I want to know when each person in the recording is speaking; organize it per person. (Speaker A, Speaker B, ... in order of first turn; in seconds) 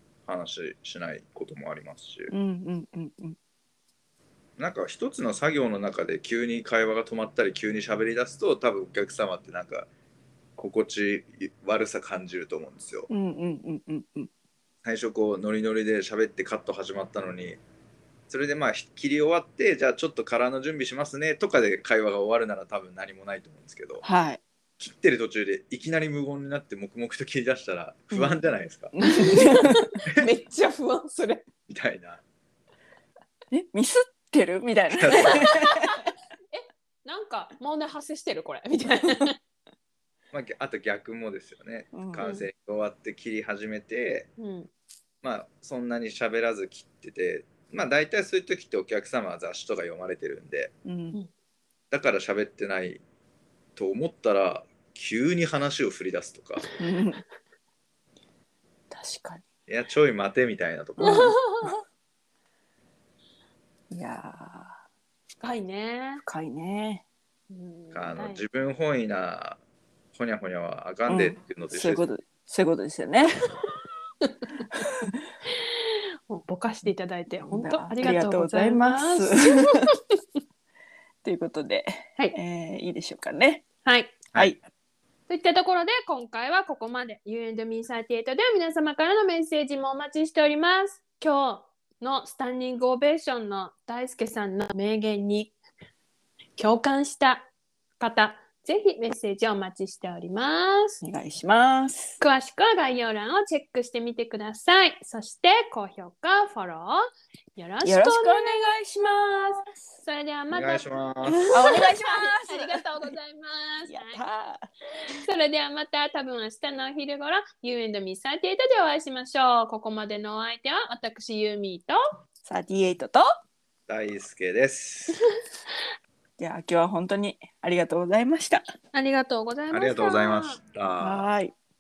Speaker A: 0.3-2.3, 4.6-9.9, 10.6-13.1, 14.8-17.6, 18.3-24.0, 24.8-28.9, 31.7-32.2, 35.1-35.4, 40.3-44.3, 45.2-50.7, 51.9-53.0, 53.8-56.7, 59.7-61.4, 67.9-69.6, 70.1-72.1, 110.5-111.5, 123.9-125.2, 129.7-131.2
Speaker B: 2.3-3.4, 13.1-14.3, 24.0-24.4, 28.1-28.4, 28.9-29.9, 33.5-36.1, 41.9-42.2, 50.9-51.2, 56.8-57.2, 58.9-59.4, 61.0-61.7, 63.9-64.8, 66.2-67.0, 71.1-73.4, 74.7-75.2, 77.4-79.9, 81.2-83.7, 84.3-84.6, 101.0-102.2, 107.8-109.8, 111.5-113.2, 113.9-114.7, 122.5-123.2, 126.4-128.6, 131.0-131.5
Speaker C: 29.0-31.5, 35.5-35.9, 36.5-39.4, 42.2-42.5, 44.4-44.7, 61.0-61.8, 65.4-66.2, 67.5-68.4, 74.2-74.9, 75.5-80.0, 83.8-84.2, 85.3-95.5, 96.6-97.5, 98.0-101.0, 102.2-107.0, 107.6-110.9, 111.5-114.2, 115.1-122.0, 128.9-130.6